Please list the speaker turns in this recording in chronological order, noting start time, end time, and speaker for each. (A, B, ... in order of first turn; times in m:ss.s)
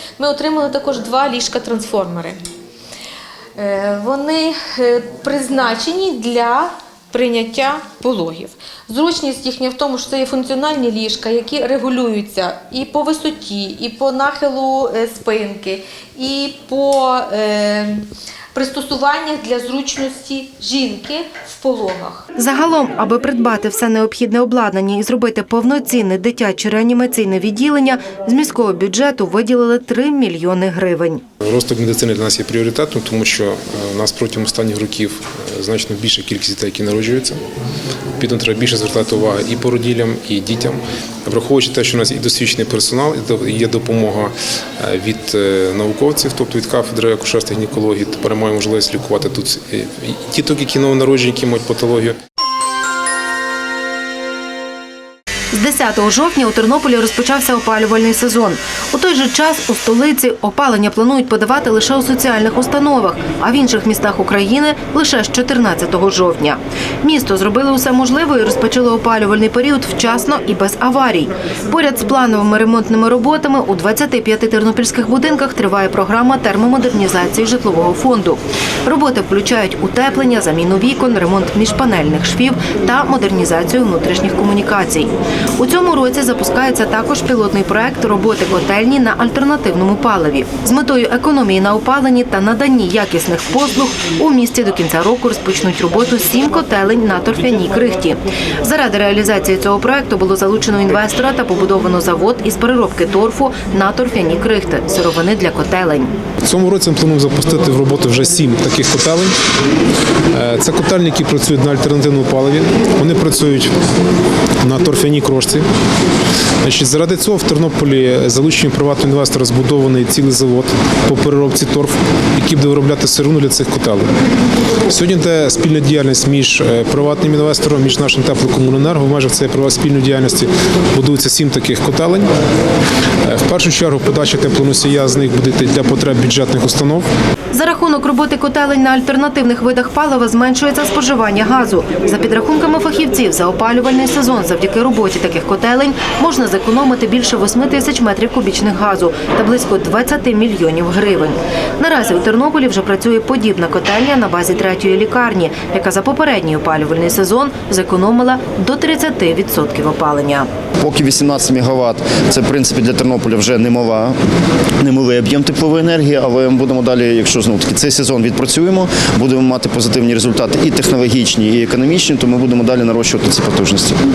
0:00.2-0:02.4 A
0:03.6-0:22.2 A
0:22.4-0:31.2 B
0:31.4-0:37.4 C
0:38.2-0:52.2 C
0:55.5-1:46.1 B
1:46.4-1:49.3 C
1:50.3-1:53.7 C
1:54.6-1:55.6 C
1:56.6-2:04.1 C
2:04.9-2:12.3 C
2:13.2-2:17.1 C
2:17.5-2:40.5 B
2:40.8-2:44.2 D
2:44.8-2:54.0 D